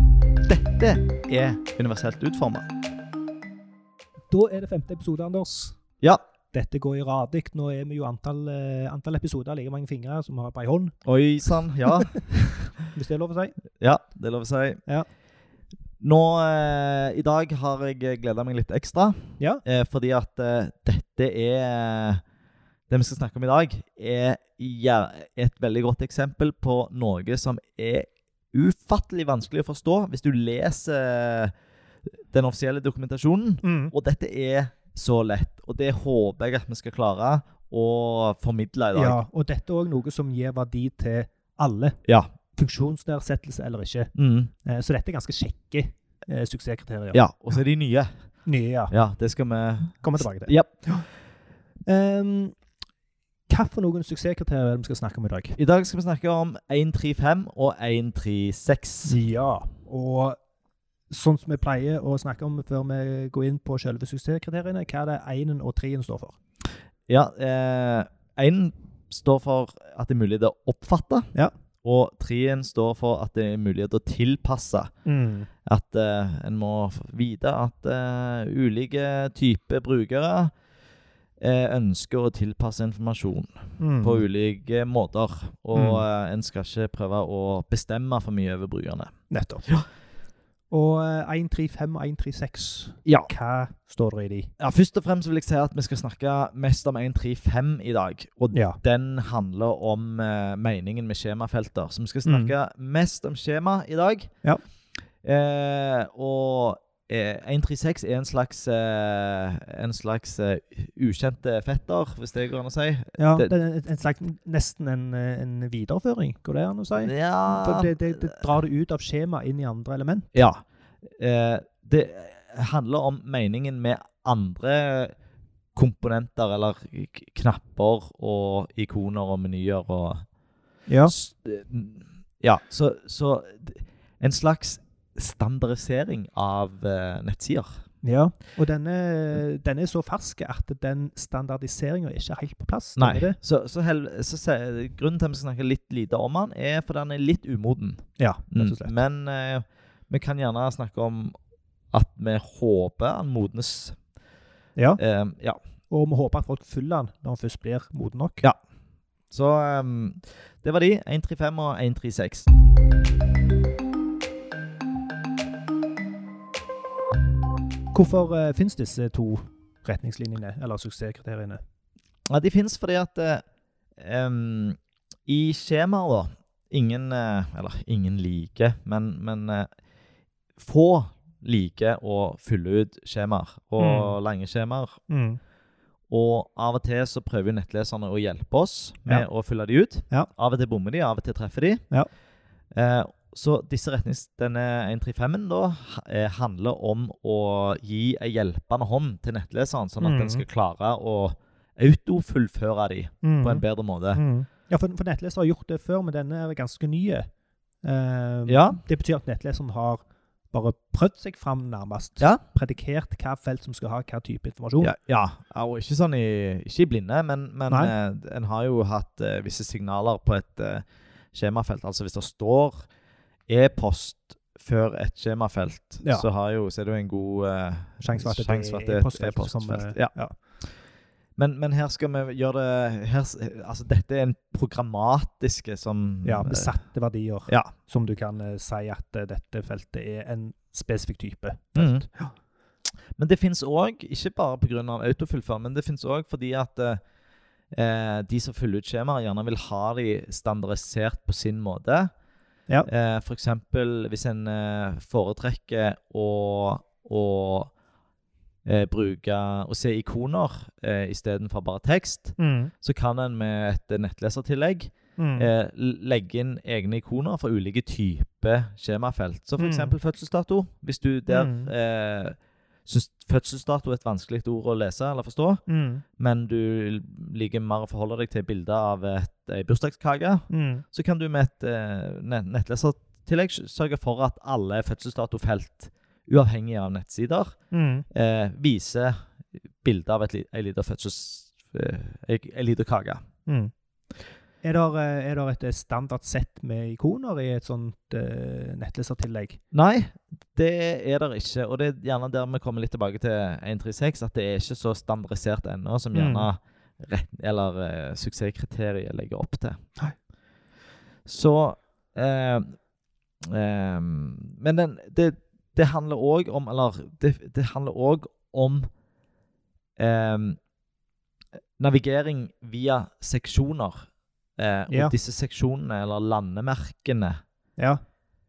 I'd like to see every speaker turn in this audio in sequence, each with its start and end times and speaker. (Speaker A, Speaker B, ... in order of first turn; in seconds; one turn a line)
Speaker A: 0.4-2.7
Speaker B: 4.3-5.8
Speaker B: 6.5-10.9
Speaker A: 11.0-12.7
Speaker B: 12.9-13.5
Speaker A: 13.8-14.8
Speaker A: 16.0-22.2
Speaker A: 22.9-31.5
Speaker A: 32.3-39.2
Speaker B: 33.6-33.9
Speaker B: 38.9-42.0
Speaker A: 42.0-42.3
Speaker B: 42.5-44.1
Speaker A: 44.1-44.5
Speaker B: 44.6-47.2
Speaker A: 47.1-48.3
Speaker B: 48.5-48.9
Speaker A: 48.9-51.0
Speaker B: 50.0-51.0
Speaker B: 51.8-52.5
Speaker B: 53.5-55.5
Speaker A: 55.6-59.1
Speaker B: 59.1-60.4
Speaker B: 61.1-66.4
Speaker A: 67.1-71.3
Speaker A: 71.8-74.9
Speaker B: 75.0-75.5
Speaker A: 75.7-80.5
Speaker A: 81.4-89.1
Speaker B: 83.8-84.2
Speaker B: 85.7-86.0
Speaker B: 89.3-89.6
Speaker B: 90.7-94.5
Speaker A: 93.0-93.3
Speaker A: 94.6-104.3
Speaker B: 98.5-98.8
Speaker B: 102.2-102.5
Speaker A: 105.2-113.5
Speaker B: 113.2-120.3
Speaker A: 117.0-118.4
Speaker A: 120.3-120.6
Speaker A: 121.2-125.1
Speaker A: 125.7-130.2
Speaker B: 130.9-131.1
Speaker A: 131.0-137.8
Speaker B: 138.0-143.4
Speaker A: 143.0-151.3
Speaker B: 148.2-148.9
Speaker A: 151.9-154.0
Speaker A: 155.0-155.6
Speaker B: 155.9-158.4
Speaker A: 159.3-162.5
Speaker B: 167.9-171.6
Speaker A: 172.3-173.4
Speaker A: 174.0-179.7
Speaker A: 180.6-185.0
Speaker B: 183.8-184.2
Speaker B: 185.1-185.4
Speaker A: 186.1-191.8
Speaker A: 192.7-204.2
Speaker B: 200.0-200.4
Speaker B: 203.2-207.3
Speaker B: 207.8-214.9
Speaker A: 208.5-208.8
Speaker A: 214.8-222.9
Speaker A: 223.5-230.7
Speaker B: 226.0-226.3
Speaker B: 228.0-230.3
Speaker A: 231.4-236.8
Speaker B: 236.2-242.3
Speaker A: 237.5-237.7
Speaker A: 241.7-242.1
Speaker A: 243.2-247.0
Speaker A: 247.7-252.1
Speaker A: 252.8-257.7
Speaker A: 258.6-275.6
Speaker B: 262.4-262.7
Speaker B: 265.2-265.5
Speaker B: 269.6-269.9
Speaker B: 271.3-271.7
Speaker B: 275.7-276.0
Speaker A: 276.2-287.6
Speaker B: 280.5-280.8
Speaker B: 287.7-288.1
Speaker A: 288.1-289.2
Speaker A: 289.8-293.2
Speaker B: 293.4-293.7
Speaker B: 294.6-299.6
Speaker A: 299.7-309.8
Speaker B: 306.1-306.5
Speaker A: 311.2-312.8
Speaker A: 313.4-318.9
Speaker A: 320.0-320.6
Speaker A: 321.8-327.4